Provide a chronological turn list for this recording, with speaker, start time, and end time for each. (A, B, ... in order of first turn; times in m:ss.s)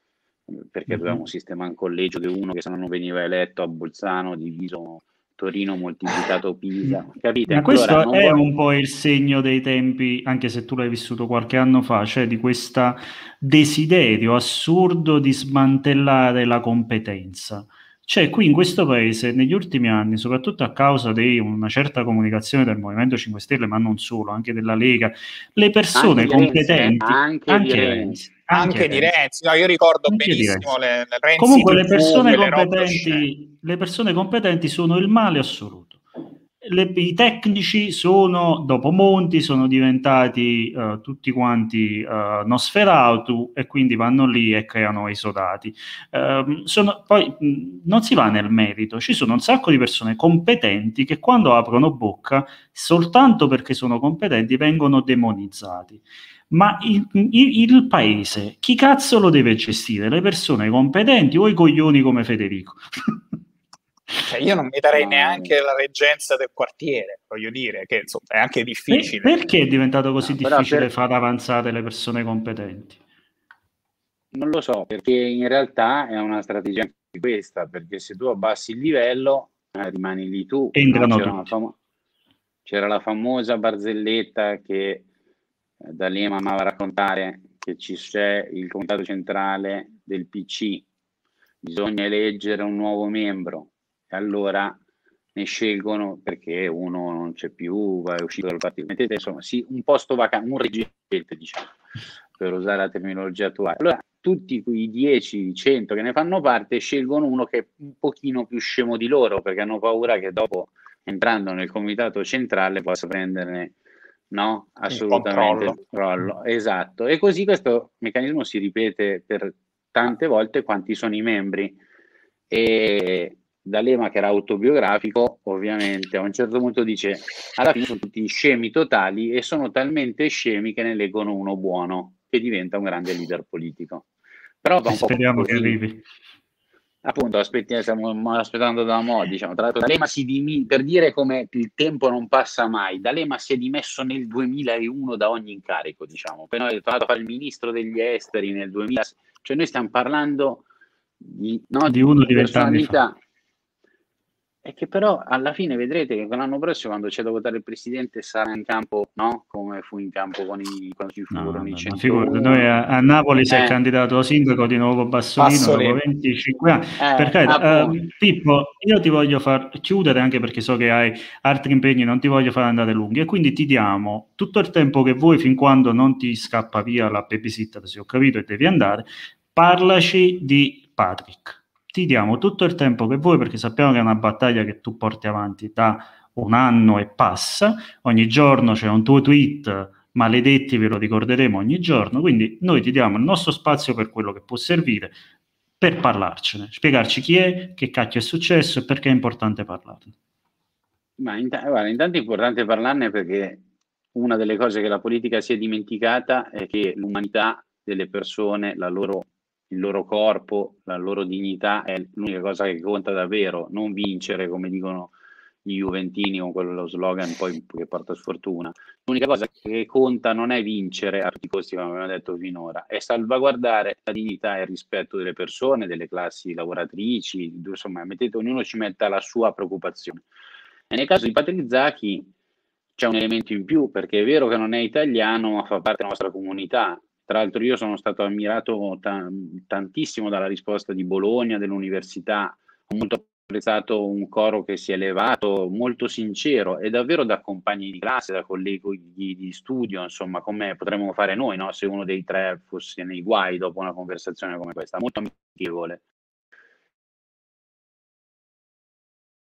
0:00.5-0:08.4 A
0:00.9-0:01.2 B
0:07.5-0:29.1 B
0:26.0-0:28.3 A
0:28.5-0:33.3 C
0:30.1-0:30.7 B
0:31.4-0:36.0 B
0:36.6-1:03.2 B
1:04.3-1:09.4 C
1:04.9-1:05.5 A
1:08.9-1:13.0 B
1:10.3-1:10.9 A
1:14.3-1:21.7 A
1:20.7-1:21.5 B
1:22.7-1:25.0 A
1:25.8-1:30.8 A
1:31.6-1:34.8 A
1:35.3-1:41.7 A
1:42.4-1:53.7 A
1:54.3-2:01.8 A
1:54.9-1:55.8 C
2:02.5-2:14.1 A
2:14.6-2:15.8 A
2:14.9-2:16.0 B
2:17.0-2:30.6 A
2:31.2-2:33.2 A
2:31.9-2:33.0 B
2:34.6-2:42.8 A
2:41.3-3:15.2 B
2:43.5-2:43.8 A
2:45.4-2:46.0 C
2:47.0-2:48.0 A
3:15.8-3:20.1 B
3:21.2-3:23.6 A
3:24.1-3:35.1 A
3:35.6-3:50.2 A
3:50.9-3:52.3 A
3:53.0-4:16.0 A